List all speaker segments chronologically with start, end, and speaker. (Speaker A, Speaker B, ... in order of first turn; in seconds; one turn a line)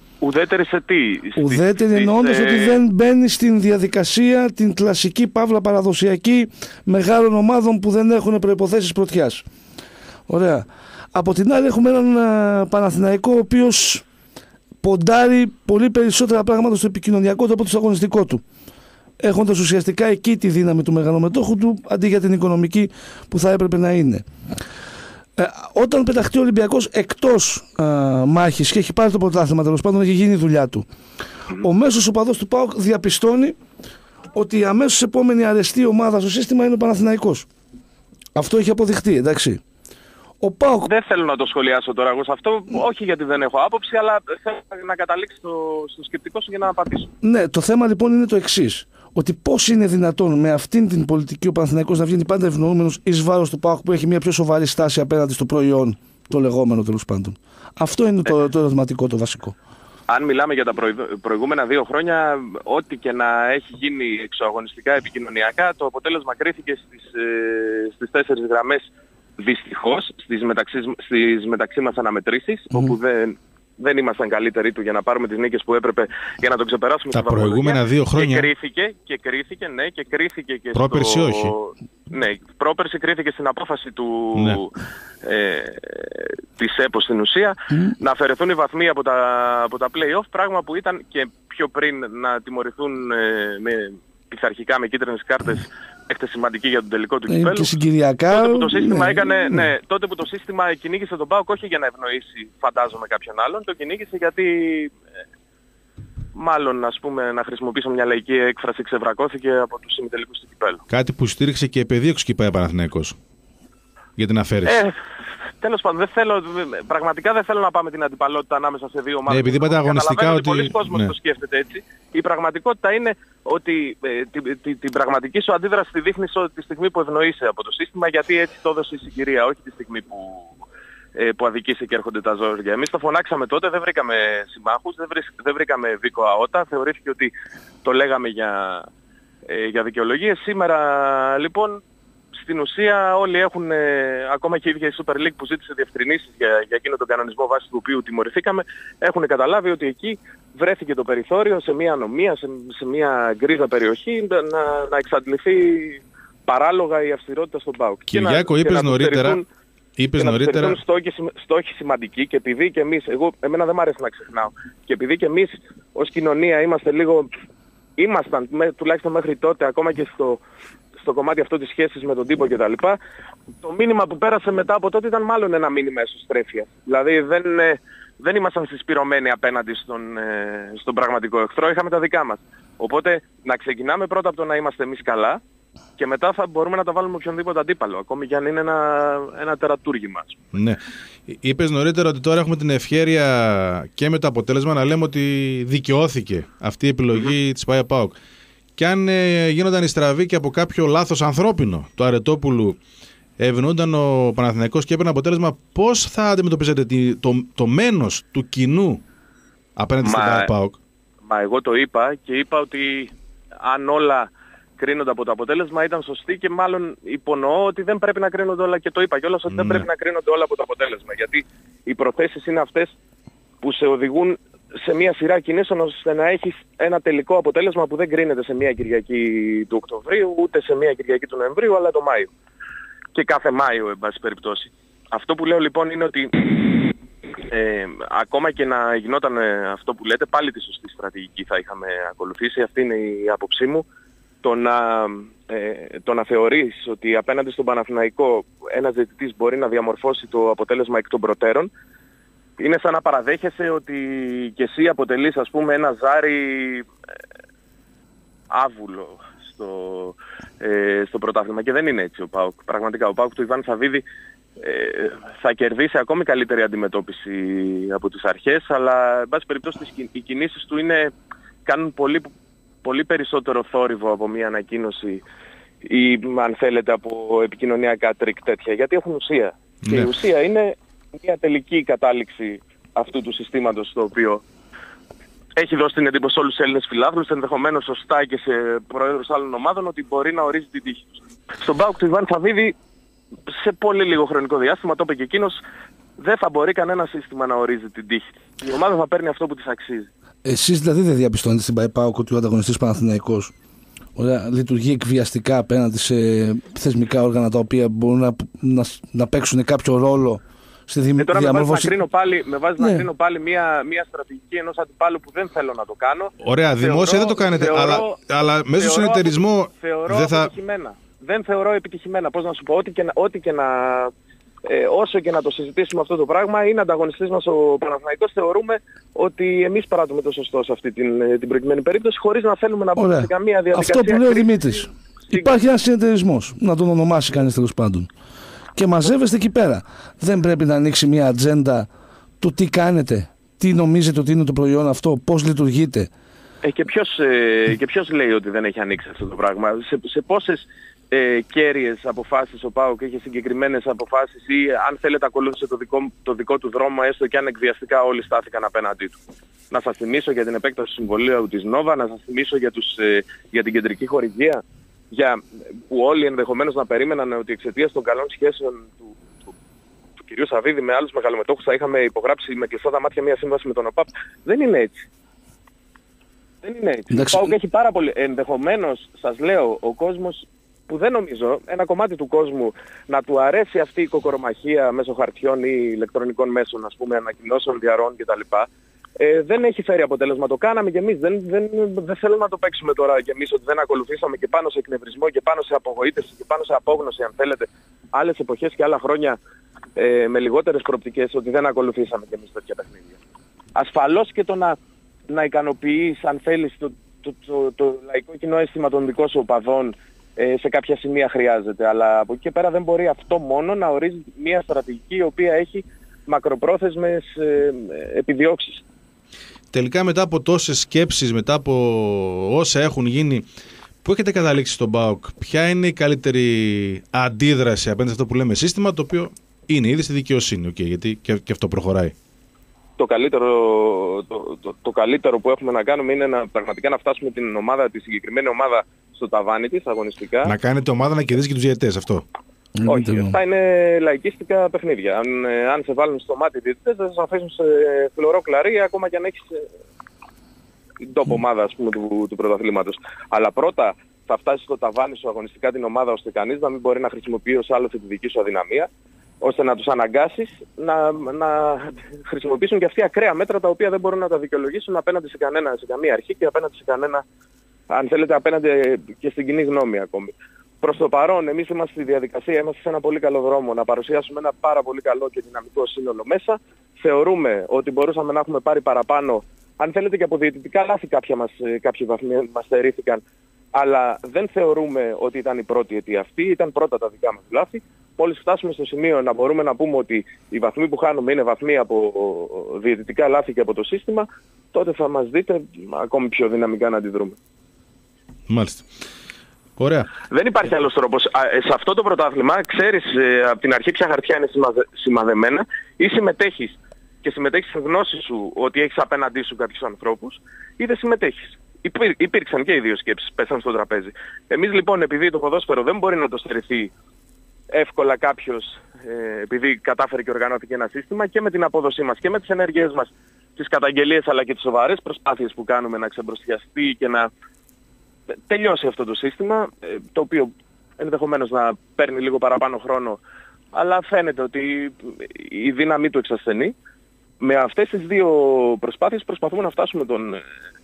Speaker A: 0.2-2.8
Speaker B: 1.4-9.4
Speaker B: 10.3-14.0
Speaker B: 14.8-18.4
Speaker B: 19.2-24.2
Speaker B: 25.4-30.9
Speaker B: 31.6-33.6
Speaker B: 34.3-37.5
Speaker B: 38.3-39.6
Speaker B: 40.4-40.9
Speaker A: 40.8-47.1
Speaker B: 47.2-59.5
Speaker A: 60.1-97.7
Speaker C: 77.1-78.5
Speaker C: 80.7-81.5
Speaker B: 97.3-99.6
Speaker A: 98.3-104.9
Speaker A: 106.3-110.8
Speaker C: 110.9-113.2
Speaker C: 114.2-114.8
Speaker A: 114.6-115.0
Speaker A: 115.6-130.5
Speaker C: 119.3-121.1
Speaker A: 131.2-137.3
Speaker A: 137.8-138.9
Speaker A: 139.5-141.8
Speaker A: 142.4-159.4
Speaker C: 158.1-159.4
Speaker C: 160.0-160.8
Speaker A: 160.2-167.3
Speaker A: 168.0-170.4
Speaker A: 171.0-173.0
Speaker A: 173.6-185.4
Speaker A: 186.0-190.4
Speaker C: 190.5-198.1
Speaker C: 198.8-202.8
Speaker C: 203.4-209.0
Speaker C: 209.8-210.8
Speaker A: 210.0-210.5
Speaker A: 211.3-223.0
Speaker C: 219.5-219.9
Speaker A: 223.6-232.3
Speaker A: 233.1-236.9
Speaker A: 237.5-243.8
Speaker A: 244.4-251.7
Speaker A: 252.6-256.9
Speaker A: 258.5-264.0
Speaker A: 264.6-271.1
Speaker A: 271.6-272.3
Speaker A: 272.8-275.2
Speaker A: 275.8-284.4
Speaker C: 279.8-280.1
Speaker A: 285.6-292.7
Speaker A: 293.5-295.6
Speaker A: 296.2-300.1
Speaker B: 300.4-303.5
Speaker B: 304.1-311.9
Speaker A: 311.2-318.2
Speaker B: 312.8-313.0
Speaker C: 316.4-320.5
Speaker A: 318.7-324.1
Speaker A: 324.6-335.5
Speaker B: 332.9-338.1
Speaker B: 338.7-341.9
Speaker B: 342.4-346.1
Speaker A: 346.6-359.2
Speaker A: 359.7-369.3
Speaker A: 370.2-375.0
Speaker A: 376.6-399.4
Speaker B: 377.1-377.5
Speaker A: 399.9-403.2
Speaker A: 403.7-404.8
Speaker A: 405.3-418.8
Speaker C: 419.7-423.4
Speaker C: 424.0-432.1
Speaker A: 433.0-440.5
Speaker C: 440.4-442.2
Speaker B: 442.8-443.4
Speaker A: 442.9-449.6
Speaker A: 451.0-458.9
Speaker A: 459.4-467.2
Speaker A: 467.9-483.2
Speaker A: 483.7-497.4
Speaker C: 498.5-498.9
Speaker C: 499.8-500.1
Speaker A: 500.3-516.9
Speaker A: 517.7-527.3
Speaker A: 528.5-533.2
Speaker A: 533.7-536.7
Speaker A: 537.4-540.4